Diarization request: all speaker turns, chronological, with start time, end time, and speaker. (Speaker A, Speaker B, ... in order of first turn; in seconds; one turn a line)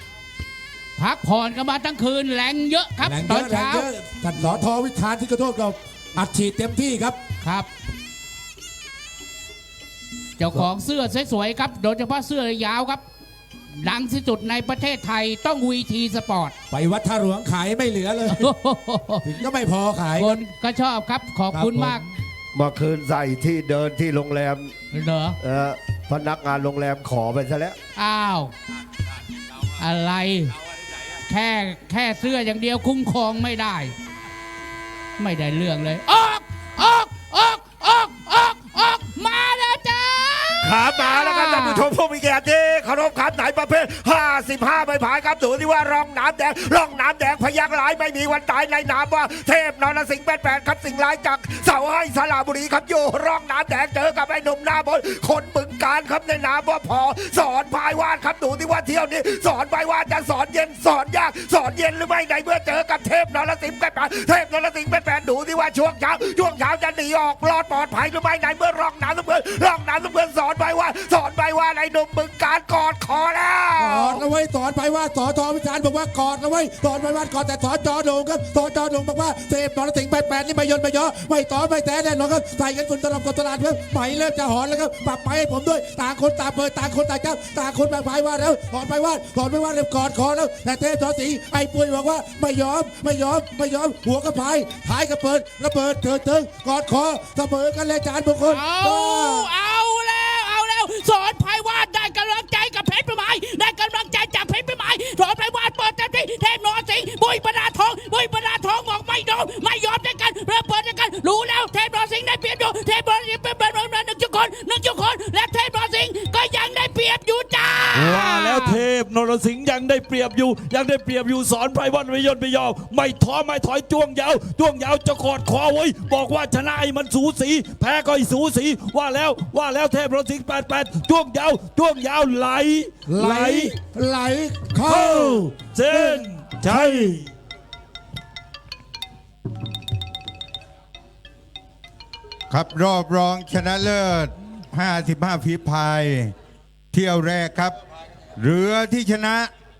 Speaker A: 1.0-3.9
Speaker B: 3.0-7.2
Speaker A: 7.4-7.7
Speaker A: 10.4-13.0
Speaker A: 13.7-16.5
Speaker B: 16.7-18.5
Speaker A: 18.3-19.4
Speaker B: 19.3-20.4
Speaker A: 20.1-22.1
Speaker B: 21.5-21.9
Speaker C: 22.5-24.7
Speaker A: 24.9-25.4
Speaker C: 25.4-27.8
Speaker A: 28.0-28.5
Speaker A: 29.8-30.5
Speaker A: 31.2-33.9
Speaker A: 35.2-41.9
Speaker C: 40.6-74.2
Speaker B: 73.8-99.5
Speaker A: 98.4-118.8
Speaker D: 117.9-133.8
Speaker B: 133.1-137.2
Speaker D: 134.8-137.3
Speaker E: 142.5-146.3
Speaker E: 146.9-147.8
Speaker E: 148.4-149.5